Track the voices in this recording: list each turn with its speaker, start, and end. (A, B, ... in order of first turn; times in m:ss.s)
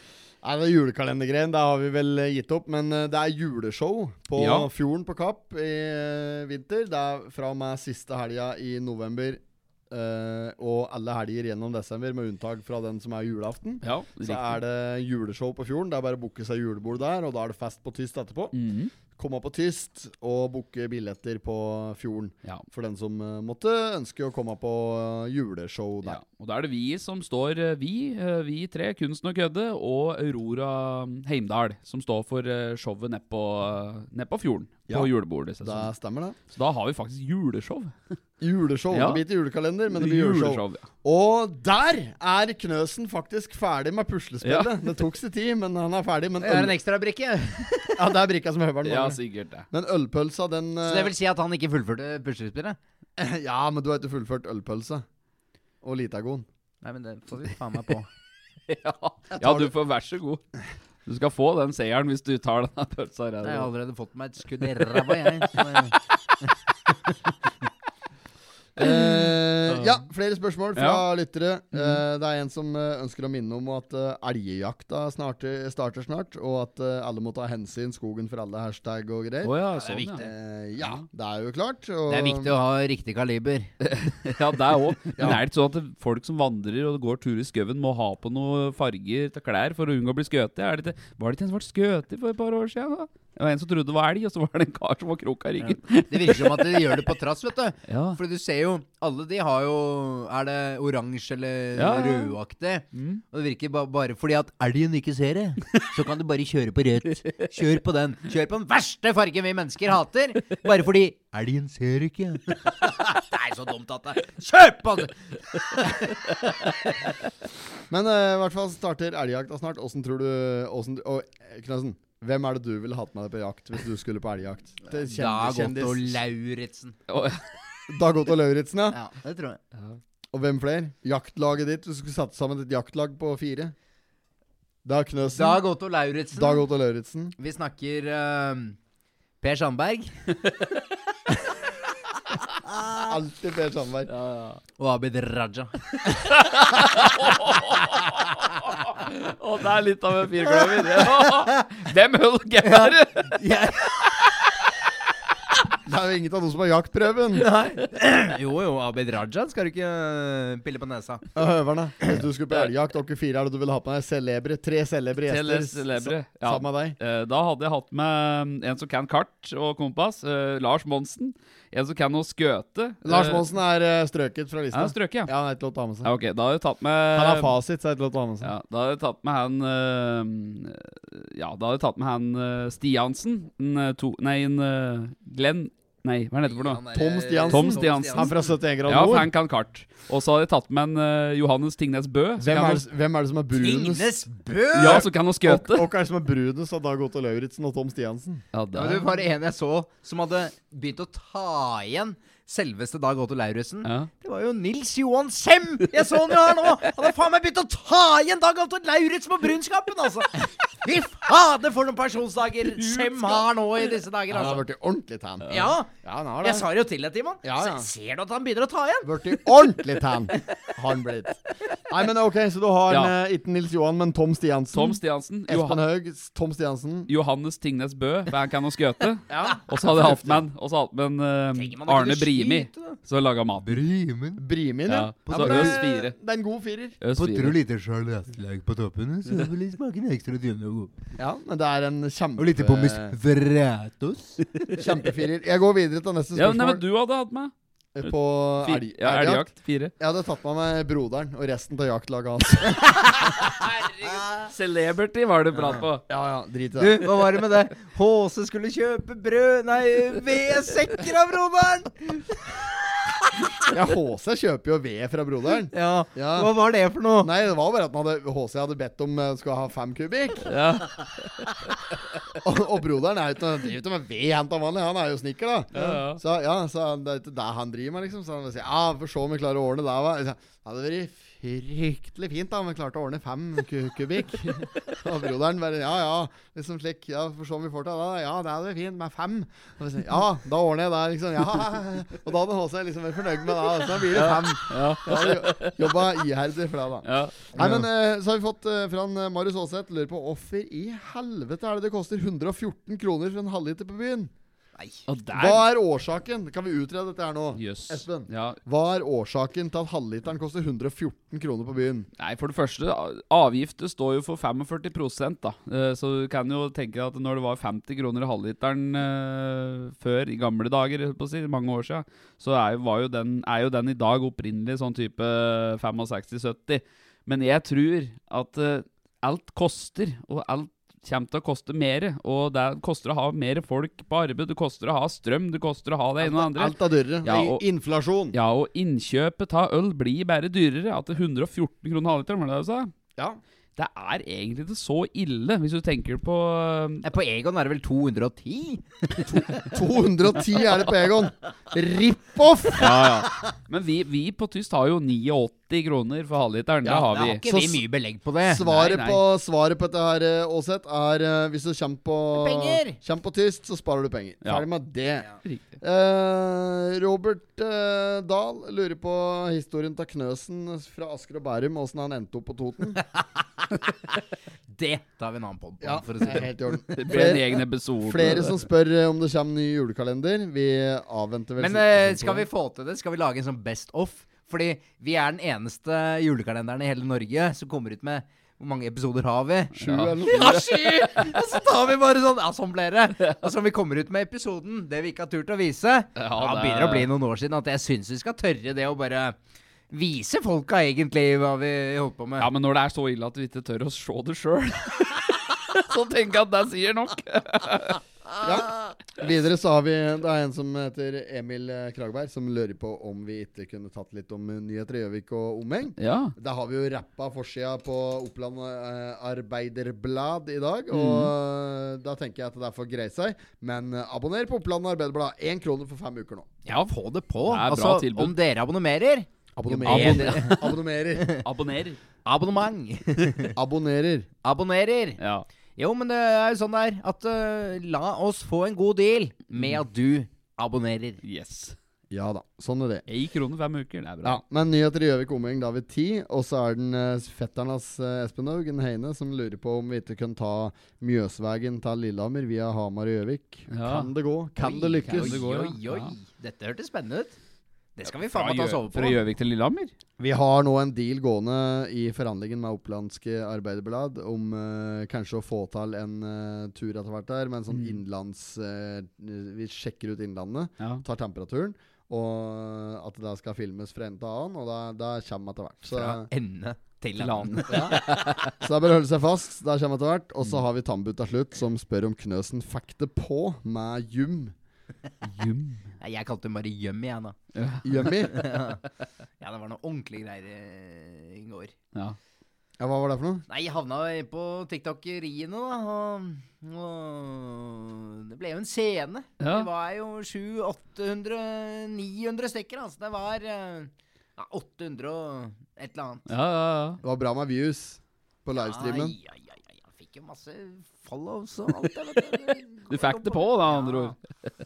0:00.4-0:18.5 A
0:04.4-0:04.7 B
0:13.8-0:14.6 B
0:18.5-0:18.9 B
0:19.2-0:26.2 A
0:26.0-0:35.9 B
0:34.9-0:36.4 A
0:36.5-0:38.0 B
0:38.4-0:46.8 A
0:38.9-0:39.2 B
0:39.9-0:40.9 B
0:44.4-0:45.0 B
0:46.4-0:48.0 C
0:47.9-0:49.2 A
0:48.8-0:49.6 B
0:49.7-0:51.1 A
0:50.8-0:52.8 C
0:53.2-0:55.0 A
0:55.8-0:56.5 A
0:56.8-0:58.1 C
0:58.7-1:00.4 B
0:59.3-0:59.7 A
1:01.0-1:03.7 B
1:03.4-1:05.9 C
1:05.0-1:05.9 B
1:08.8-1:19.5 A
1:08.8-1:10.0 B
1:10.8-1:11.0 B
1:11.7-1:12.0 B
1:19.4-1:20.2 B
1:19.8-1:20.3 C
1:20.2-1:22.5 A
1:22.1-1:23.7 C
1:23.8-1:37.1 B
1:35.6-1:56.3 C
1:37.9-1:38.2 B
1:41.8-1:42.3 B
1:42.9-1:43.2 B
1:57.9-2:06.2 A
2:05.0-2:07.0 C
2:07.1-2:07.4 B
2:07.9-2:09.0 A
2:08.9-2:09.6 C
2:10.3-2:13.7 A
2:14.8-2:15.6 A
2:15.3-2:16.6 C
2:16.3-2:17.3 A
2:17.4-2:18.8 C
2:19.4-2:20.3 C
2:22.6-2:23.1 C
2:23.0-2:24.1 A
2:24.1-2:24.6 B
2:24.8-2:25.7 C
2:26.0-2:33.4 B
2:30.9-2:31.5 C
2:32.6-2:34.0 C
2:34.0-2:34.3 B
2:35.8-2:37.4 A
2:37.4-2:41.2 C
2:41.3-2:47.0 A
2:45.3-2:53.4 B
2:53.0-2:56.1 A
2:54.7-2:55.3 B
2:56.0-2:57.5 B
2:57.1-2:58.5 A
2:58.4-3:06.8 B
3:06.4-3:08.3 C
3:06.9-3:09.3 A
3:07.5-3:12.8 B
3:12.4-3:18.4 A
3:13.6-3:15.1 C
3:14.7-3:15.9 B
3:18.5-3:19.2 B
3:18.7-3:34.6 C
3:23.8-3:24.1 B
3:26.2-3:26.7 B
3:32.8-3:33.4 B
3:34.3-3:36.7 A
3:35.5-3:35.9 C
3:36.4-3:39.3 C
3:37.4-3:37.9 A
3:39.0-3:47.1 A
3:44.7-3:45.8 B
3:47.1-3:53.8 B
3:49.3-3:50.4 A
3:51.5-3:53.0 C
3:53.6-3:54.4 C
3:54.4-3:57.0 A
3:54.9-3:56.1 B
3:55.2-3:55.8 C
3:57.0-3:57.6 B
3:57.2-4:00.9 C
4:01.2-4:03.2 A
4:02.4-4:04.8 C
4:04.8-4:06.8 A
4:06.3-4:07.5 B
4:07.9-4:12.8 A
4:08.0-4:09.9 B
4:13.0-4:14.5 C
4:13.6-4:16.0 B
4:15.6-4:15.9 C
4:16.1-4:17.1 A
4:16.8-4:22.5 C
4:23.7-4:26.5 A
4:25.7-4:27.3 C
4:27.2-4:30.5 A
4:30.4-4:31.7 B
4:32.3-5:04.3 A
4:35.7-4:36.2 B
4:54.1-4:56.0 B
4:57.0-4:57.9 B
5:04.8-5:05.0 C
5:05.1-5:05.6 B
5:05.3-5:12.1 A
5:07.5-5:08.6 B
5:12.2-5:37.6 B
5:36.2-5:38.4 A
5:38.3-5:42.9 B
5:43.8-5:47.0 B
5:47.0-5:49.6 C
5:49.3-5:52.9 A
5:52.8-5:57.4 B
5:56.8-5:57.8 A
5:57.0-5:58.6 C
5:58.4-6:05.3 A
5:58.6-5:59.2 B
6:02.3-6:03.0 C
6:05.4-6:05.8 B
6:05.8-6:13.0 A
6:14.7-6:16.8 C
6:15.8-6:22.5 A
6:16.9-6:18.6 B
6:21.6-6:39.4 C
6:29.8-6:30.6 A
6:29.8-6:31.4 B
6:36.2-6:37.1 B
6:39.9-6:42.5 C
6:42.4-6:48.0 B
6:48.4-7:06.5 A
6:56.0-6:56.3 B
7:00.9-7:01.3 B
7:06.6-7:11.4 C
7:07.4-7:08.3 B
7:09.6-7:11.3 A
7:09.8-7:10.7 B
7:11.4-7:12.0 B
7:12.2-7:13.5 C
7:13.5-7:14.3 A
7:14.4-7:15.2 C
7:15.2-7:15.4 B
7:15.8-7:21.2 C
7:21.2-7:21.8 B
7:22.1-7:23.0 A
7:23.1-7:24.4 B
7:24.2-7:35.4 A
7:33.7-7:34.1 B
7:34.6-7:37.4 C
7:35.1-7:36.1 B
7:38.0-7:39.2 C
7:38.3-7:39.9 B
7:40.2-7:56.3 A
7:47.7-7:48.0 B
7:55.9-7:58.4 C
7:57.2-7:58.5 B
7:58.6-8:04.5 A
8:05.2-8:05.8 B
8:06.0-8:07.4 C
8:07.5-8:08.2 B
8:07.8-8:08.5 A
8:08.0-8:08.8 C
8:09.4-8:11.7 C
8:12.8-8:13.4 A
8:13.5-8:26.3 C
8:19.4-8:19.7 B
8:26.3-8:27.0 B
8:27.0-8:29.2 A
8:28.5-8:34.1 C
8:32.9-8:34.2 B